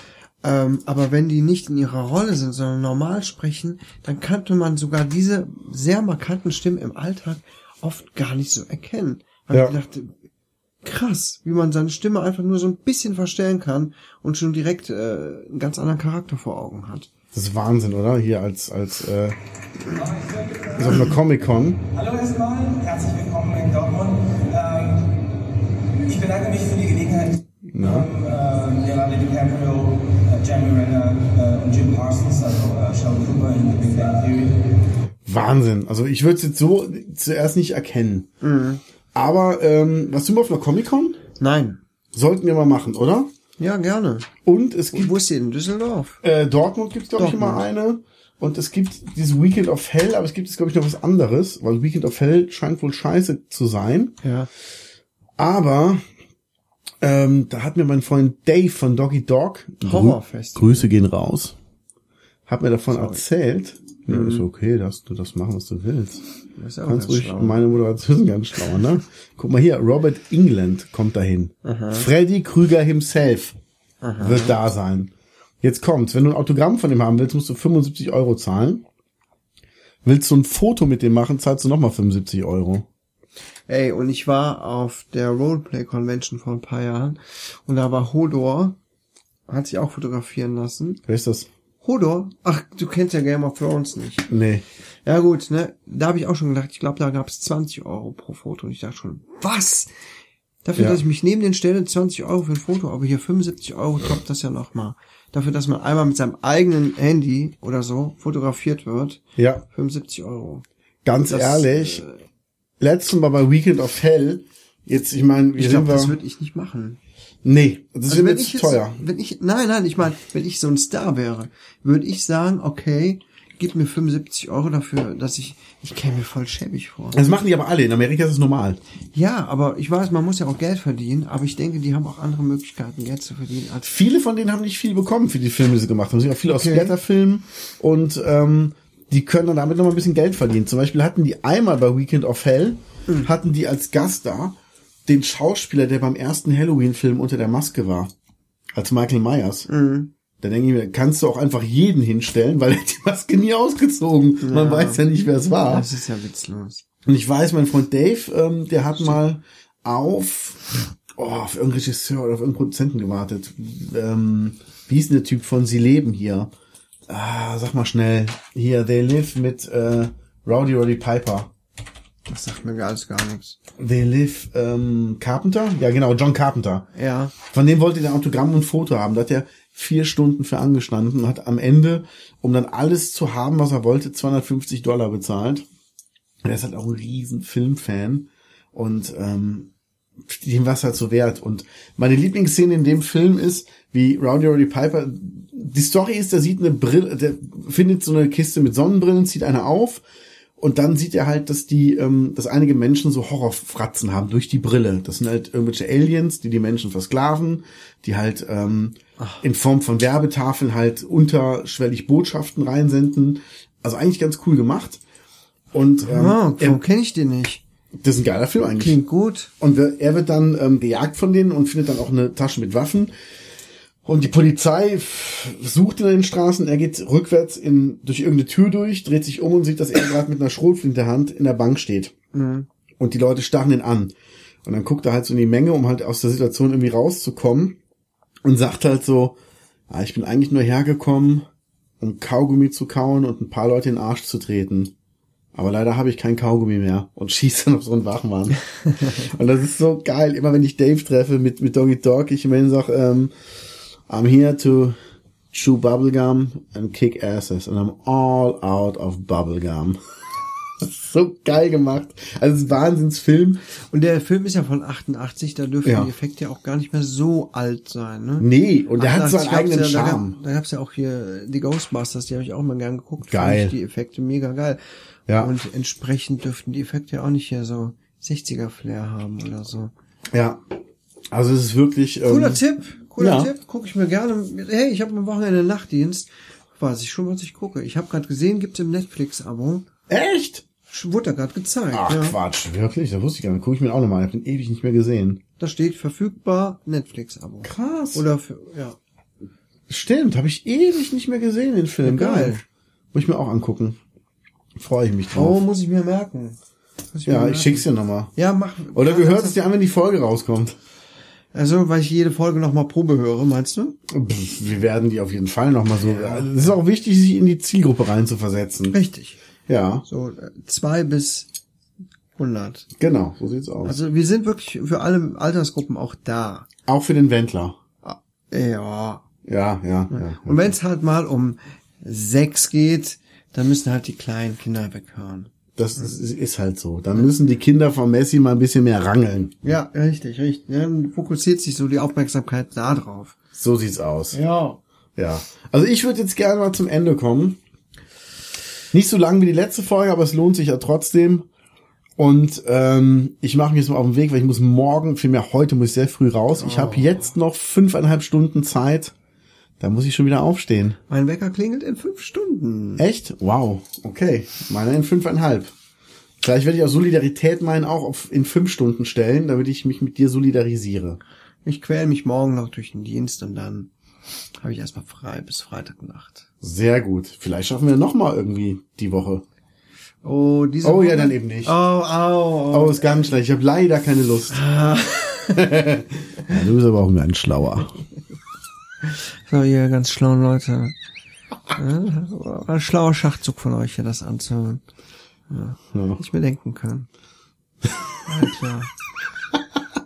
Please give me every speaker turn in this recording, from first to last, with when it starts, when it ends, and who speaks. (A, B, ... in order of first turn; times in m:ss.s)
0:00.4-0:10.2 A
0:09.5-0:09.8 B
0:10.8-0:17.1 A
0:17.3-0:19.4 B
0:20.1-0:20.8 C
0:20.7-0:21.9 B
0:21.9-0:25.2 C
0:26.0-0:34.7 C
0:27.7-0:28.1 B
0:35.2-0:38.3 B
0:38.4-0:38.8 A
0:39.2-0:41.2 B
0:41.4-0:41.8 A
0:42.1-0:43.3 B
0:43.6-0:44.3 A
0:44.4-0:45.2 B
0:44.9-0:46.2 A
0:46.2-0:54.2 B
0:47.2-0:47.6 A
0:54.2-0:54.5 A
0:55.4-0:56.0 B
0:57.0-1:01.6 B
0:59.8-1:00.9 A
1:02.5-1:06.2 B
1:02.9-1:03.2 A
1:04.1-1:04.5 A
1:06.6-1:07.7 A
1:06.9-1:13.6 B
1:11.6-1:12.1 A
1:14.0-1:14.6 A
1:14.2-1:18.8 B
1:20.0-1:22.9 B
1:23.7-1:28.8 A
1:29.5-1:31.0 A
1:31.1-1:31.5 B
1:31.8-1:34.3 A
1:34.3-1:34.6 B
1:35.0-1:39.9 A
1:40.6-1:50.6 A
1:40.8-1:41.0 B
1:49.4-1:49.6 B
1:51.0-1:52.0 B
1:51.3-1:52.2 A
1:52.8-1:56.2 B
1:55.6-1:57.0 A
1:57.4-1:59.0 B
1:58.1-2:07.3 A
2:07.1-2:08.8 B
2:09.1-2:14.0 A
2:13.8-2:28.1 B
2:16.5-2:16.9 A
2:28.8-2:29.7 B
2:29.7-2:30.1 A
2:30.4-2:35.9 B
2:34.4-2:35.0 A
2:35.6-2:36.8 A
2:37.1-2:46.5 B
2:47.1-2:51.5 B
2:52.3-2:53.6 A
2:53.8-2:56.9 B
2:57.0-2:57.4 A
2:57.4-3:05.7 B
3:06.4-3:09.7 B
3:10.3-3:20.0 B
3:20.6-3:35.0 B
3:35.7-3:36.8 B
3:36.0-3:37.6 A
3:38.0-3:39.0 B
3:38.8-3:39.5 A
3:39.6-3:43.1 B
3:44.0-3:52.1 B
3:52.3-3:52.7 A
3:53.0-3:54.1 B
3:54.6-3:57.8 B
3:58.4-3:59.4 B
3:59.9-4:01.5 B
4:02.0-4:04.9 B
4:05.6-4:13.3 B
4:14.1-4:15.0 B
4:15.5-4:20.0 B
4:20.8-4:23.6 B
4:23.9-4:34.8 A
4:25.8-4:26.1 B
4:28.4-4:30.4 B
4:33.3-4:33.8 B
4:35.4-4:39.9 A
4:40.3-4:40.6 B
4:41.3-4:42.6 B
4:42.2-4:49.9 A
4:43.2-4:43.5 B
4:50.1-4:50.6 B
4:50.9-4:52.4 A
4:51.9-4:55.4 B
4:55.6-4:59.0 A
4:57.6-4:58.2 B
4:59.9-5:02.6 B
5:02.0-5:02.6 A
5:03.1-5:04.0 B
5:04.8-5:05.6 B
5:05.3-5:06.6 A
5:07.1-5:09.6 A
5:07.3-5:08.3 B
5:08.9-5:10.8 B
5:11.5-5:14.0 A
5:14.1-5:19.0 B
5:16.0-5:16.7 A
5:18.9-5:19.4 A
5:19.7-5:20.0 B
5:20.1-5:21.5 A
5:22.4-5:22.9 A
5:23.0-5:24.0 B
5:23.8-5:26.7 A
5:26.9-5:27.8 B
5:28.0-5:29.2 A
5:29.4-5:30.8 B
5:30.1-5:35.5 A
5:35.8-5:39.6 B
5:39.6-5:43.4 A
5:43.6-5:44.4 B
5:44.3-5:44.8 A
5:45.2-5:47.6 B
5:48.9-5:51.5 B
5:52.2-5:59.1 B
5:56.6-5:57.3 A
5:59.8-6:01.0 B
6:01.1-6:03.1 A
6:03.0-6:05.7 B
6:06.4-6:11.2 B
6:11.6-6:13.9 A
6:14.6-6:16.4 A
6:16.6-6:19.4 B
6:20.2-6:23.0 A
6:20.8-6:21.8 B
6:22.7-6:24.6 B
6:24.5-6:25.8 A
6:25.6-6:28.0 B
6:29.0-6:31.0 A
6:31.7-6:34.8 A
6:35.5-6:37.1 A
6:35.9-6:36.2 B
6:38.2-6:38.9 A